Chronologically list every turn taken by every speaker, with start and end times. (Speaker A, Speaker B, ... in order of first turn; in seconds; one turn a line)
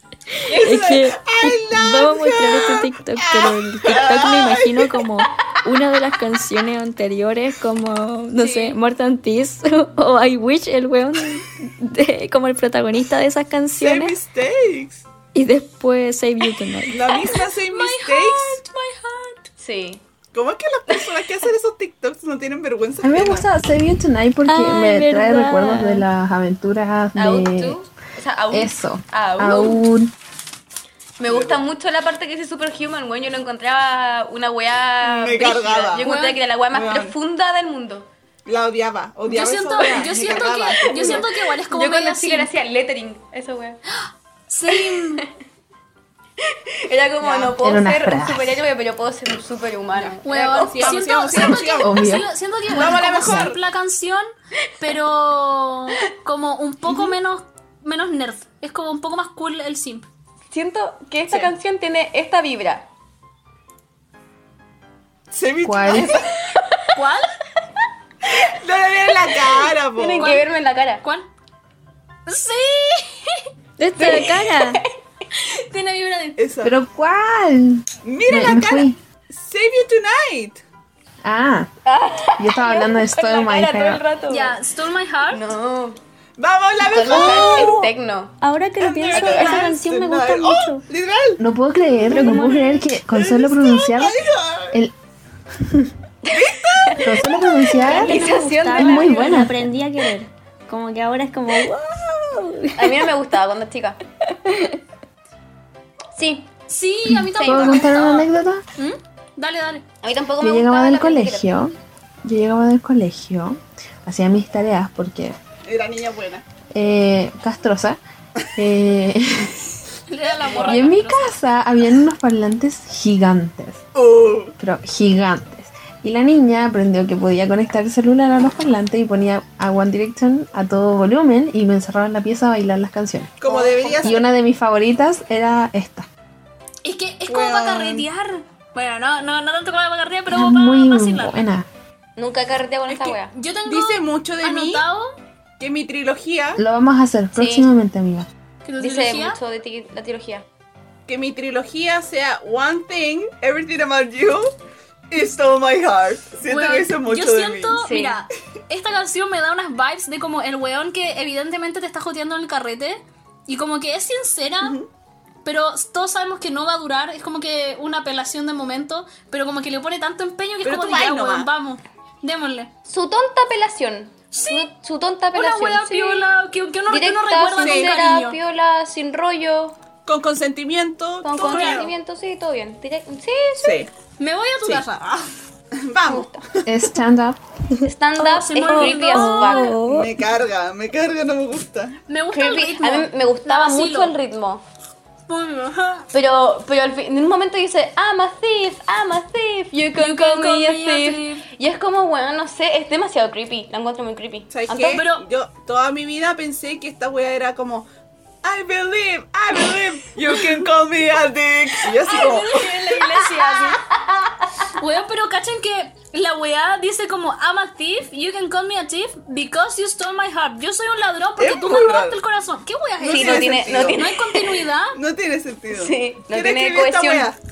Speaker A: 0.5-0.9
Speaker B: 0.5-14.2
Speaker C: 0.5-5.1
Speaker D: 8.4-8.8
Speaker C: 13.8-15.1
Speaker B: 15.3-17.2
Speaker C: 16.9-18.6
Speaker D: 17.1-19.5
Speaker A: 19.6-20.0
Speaker C: 20.3-23.4
Speaker E: 23.0-27.8
Speaker B: 24.5-26.1
Speaker A: 27.1-29.8
Speaker E: 28.5-30.1
Speaker A: 31.2-38.1
Speaker C: 31.2-31.6
Speaker C: 35.0-36.1
Speaker D: 36.0-36.4
Speaker C: 36.7-37.1
Speaker C: 38.5-41.3
Speaker D: 39.3-42.5
Speaker A: 39.8-43.8
Speaker D: 44.0-45.2
Speaker A: 44.7-45.3
Speaker A: 46.5-51.0
Speaker C: 47.2-47.6
Speaker E: 47.6-48.6
Speaker C: 50.0-50.2
Speaker D: 50.2-54.2
Speaker C: 50.7-52.1
Speaker E: 51.3-53.5
Speaker C: 52.7-53.6
Speaker D: 54.8-60.1
Speaker A: 60.5-62.9
Speaker C: 65.3-66.2
Speaker E: 65.6-66.2
Speaker A: 65.9-66.9
Speaker D: 66.9-67.3
Speaker C: 68.4-70.3
Speaker A: 69.5-71.0
Speaker D: 70.2-70.5
Speaker D: 71.0-71.3
Speaker D: 72.3-73.5
Speaker B: 73.8-74.8
Speaker A: 74.0-74.9
Speaker D: 75.3-76.5
Speaker C: 76.4-76.7
Speaker E: 76.6-79.0
Speaker C: 78.0-80.6
Speaker E: 81.2-81.7
Speaker A: 81.8-84.6
Speaker E: 82.4-84.0
Speaker D: 84.3-85.5
Speaker A: 85.3-86.0
Speaker C: 86.4-87.9
Speaker A: 86.8-88.4
Speaker B: 87.1-87.6
Speaker B: 88.4-90.8
Speaker C: 88.8-91.4
Speaker A: 89.1-89.7
Speaker E: 91.4-94.2
Speaker C: 92.0-94.8
Speaker D: 92.1-92.6
Speaker A: 96.2-97.1
Speaker C: 96.3-97.2
Speaker E: 97.0-99.6
Speaker A: 97.7-99.5
Speaker B: 97.8-103.1
Speaker A: 102.8-104.0
Speaker A: 106.1-106.5
Speaker D: 106.7-109.8
Speaker E: 107.1-108.6
Speaker A: 107.3-107.9
Speaker A: 110.0-111.5
Speaker E: 110.4-111.7
Speaker E: 112.2-115.4
Speaker C: 115.6-116.5
Speaker E: 116.7-118.0
Speaker E: 118.5-119.6
Speaker D: 120.1-121.4
Speaker A: 120.4-120.9
Speaker E: 120.6-123.8
Speaker C: 124.0-124.5
Speaker E: 124.6-133.3
Speaker C: 133.4-134.2
Speaker A: 133.4-134.2
Speaker E: 134.0-136.1
Speaker D: 136.8-141.4
Speaker C: 137.3-138.1
Speaker E: 140.3-141.7
Speaker A: 142.2-143.3
Speaker C: 142.9-144.8
Speaker D: 143.3-145.2
Speaker C: 145.6-146.6
Speaker E: 146.6-148.3
Speaker A: 147.3-147.7
Speaker D: 148.6-149.4
Speaker A: 148.8-150.4
Speaker C: 151.1-154.5
Speaker C: 155.1-157.8
Speaker D: 156.5-164.8
Speaker A: 157.8-158.2
Speaker C: 164.6-164.9
Speaker D: 165.4-172.7
Speaker C: 170.6-171.5
Speaker A: 172.9-176.2
Speaker D: 174.3-174.7
Speaker D: 175.3-178.4
Speaker A: 176.9-179.8
Speaker C: 177.6-178.1
Speaker C: 180.1-181.9
Speaker A: 181.2-183.8
Speaker D: 181.4-181.8
Speaker C: 183.6-183.9
Speaker D: 184.2-185.3
Speaker C: 185.7-186.4
Speaker A: 186.1-186.4
Speaker E: 186.6-187.4
Speaker A: 187.8-189.8
Speaker D: 188.2-189.8
Speaker B: 188.6-190.1
Speaker C: 189.8-192.0
Speaker D: 192.1-194.1
Speaker A: 192.3-194.6
Speaker D: 195.3-196.1
Speaker A: 196.1-205.0
Speaker D: 200.0-201.5
Speaker C: 204.5-207.9
Speaker D: 204.8-205.2
Speaker C: 208.4-212.7
Speaker D: 211.9-213.8
Speaker A: 212.1-214.7
Speaker D: 214.8-225.0
Speaker C: 221.4-222.2
Speaker C: 223.0-224.0
Speaker A: 223.0-224.6
Speaker C: 224.9-227.4
Speaker A: 225.7-227.3